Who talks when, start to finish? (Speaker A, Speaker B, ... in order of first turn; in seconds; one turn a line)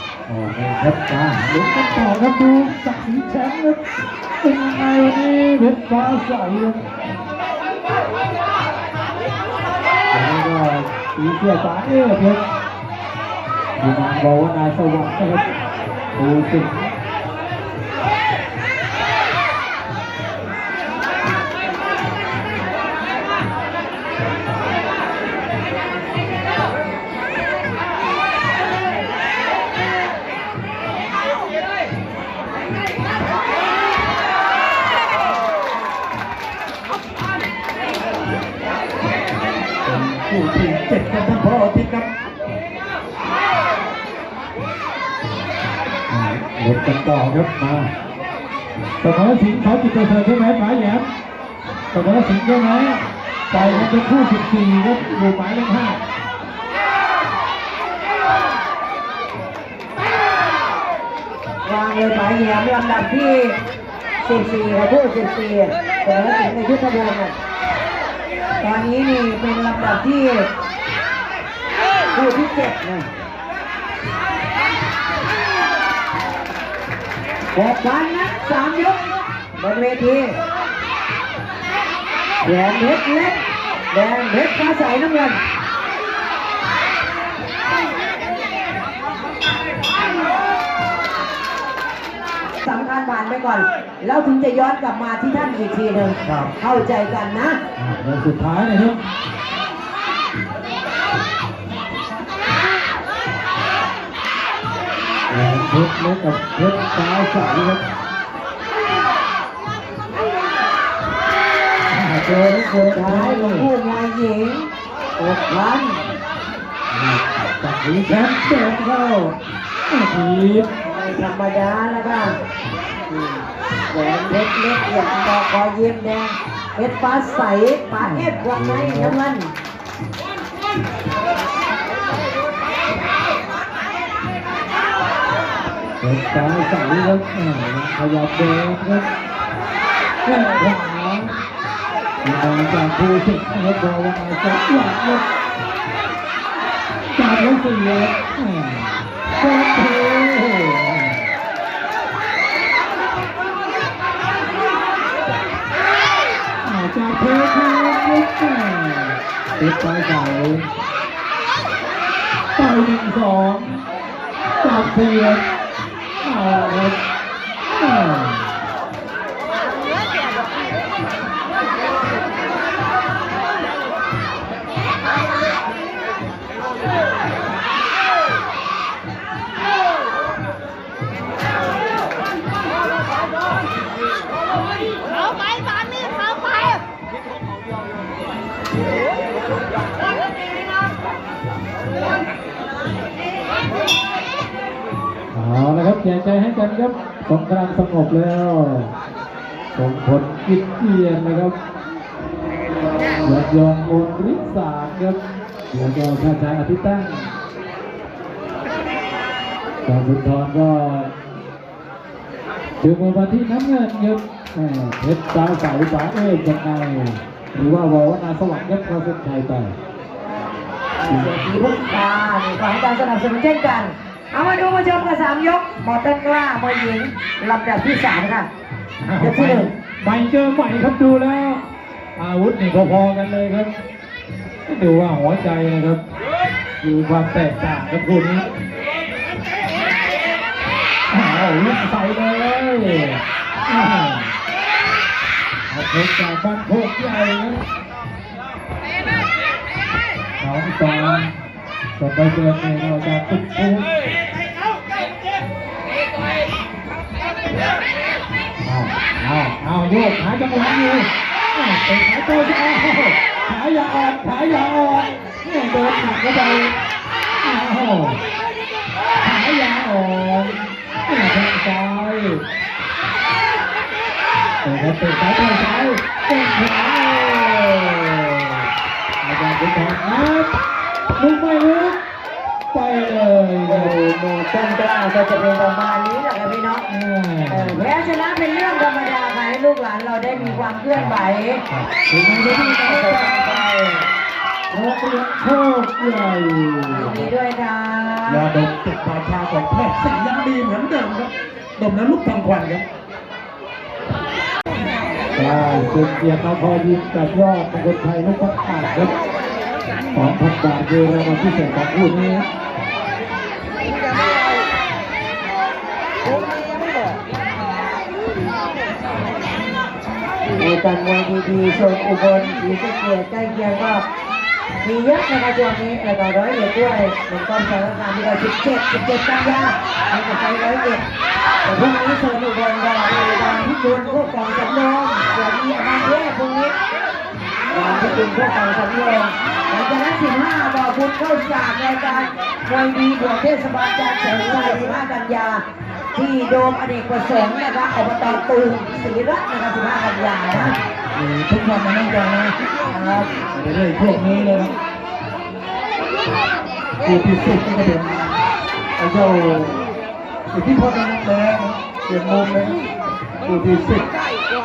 Speaker A: 0.3-3.8
Speaker A: 4.4-6.8
Speaker A: 10.1-12.4
Speaker A: 13.8-15.5
Speaker A: 16.1-16.9
Speaker B: 39.8-42.1
Speaker A: 46.1-47.9
Speaker A: 49.0-51.1
Speaker A: 51.9-56.0
Speaker C: 53.5-53.9
Speaker C: 61.6-63.6
Speaker C: 64.2-67.3
Speaker C: 68.6-70.5
Speaker C: 72.1-73.1
Speaker C: 77.5-79.0
Speaker C: 79.6-80.4
Speaker C: 82.4-85.4
Speaker C: 92.6-97.6
Speaker B: 96.2-96.5
Speaker A: 97.8-99.0
Speaker A: 105.3-107.8
Speaker A: 111.9-113.7
Speaker C: 112.4-116.1
Speaker A: 116.9-118.8
Speaker A: 119.9-120.7
Speaker C: 120.8-122.2
Speaker C: 123.9-129.5
Speaker A: 128.0-129.2
Speaker A: 136.0-139.1
Speaker A: 140.2-141.3
Speaker A: 142.2-145.2
Speaker A: 147.2-151.2
Speaker A: 156.6-160.7
Speaker A: 162.6-163.8
Speaker A: 164.6-165.4
Speaker A: 166.2-167.0
Speaker A: 167.8-168.5
Speaker A: 195.3-198.9
Speaker A: 199.7-201.5
Speaker A: 203.2-205.2
Speaker A: 205.7-207.3
Speaker A: 209.8-211.1
Speaker A: 212.8-219.8
Speaker C: 221.0-228.5
Speaker A: 229.0-231.6
Speaker C: 229.2-229.7
Speaker A: 232.2-233.7
Speaker A: 234.7-236.0
Speaker A: 236.8-238.5
Speaker A: 241.1-244.3
Speaker A: 245.7-247.6
Speaker A: 250.4-251.3
Speaker A: 252.0-253.9
Speaker A: 258.6-266.7
Speaker A: 267.4-268.2
Speaker A: 269.2-272.4
Speaker A: 274.6-278.7
Speaker A: 279.2-280.5
Speaker A: 281.1-282.0
Speaker A: 282.7-283.9
Speaker C: 283.6-286.9
Speaker A: 286.9-287.8
Speaker C: 287.5-291.6
Speaker A: 290.3-291.1
Speaker A: 291.7-293.6
Speaker C: 292.2-294.1
Speaker A: 294.7-297.3
Speaker C: 296.9-298.4
Speaker B: 298.2-302.8
Speaker A: 305.4-309.1
Speaker A: 310.1-312.5
Speaker C: 320.6-324.0
Speaker C: 324.8-331.0
Speaker C: 331.6-336.7
Speaker C: 337.7-345.6
Speaker C: 346.1-350.8
Speaker B: 351.1-354.7
Speaker B: 357.0-358.4
Speaker B: 359.0-359.8
Speaker B: 360.5-362.8
Speaker B: 363.4-364.1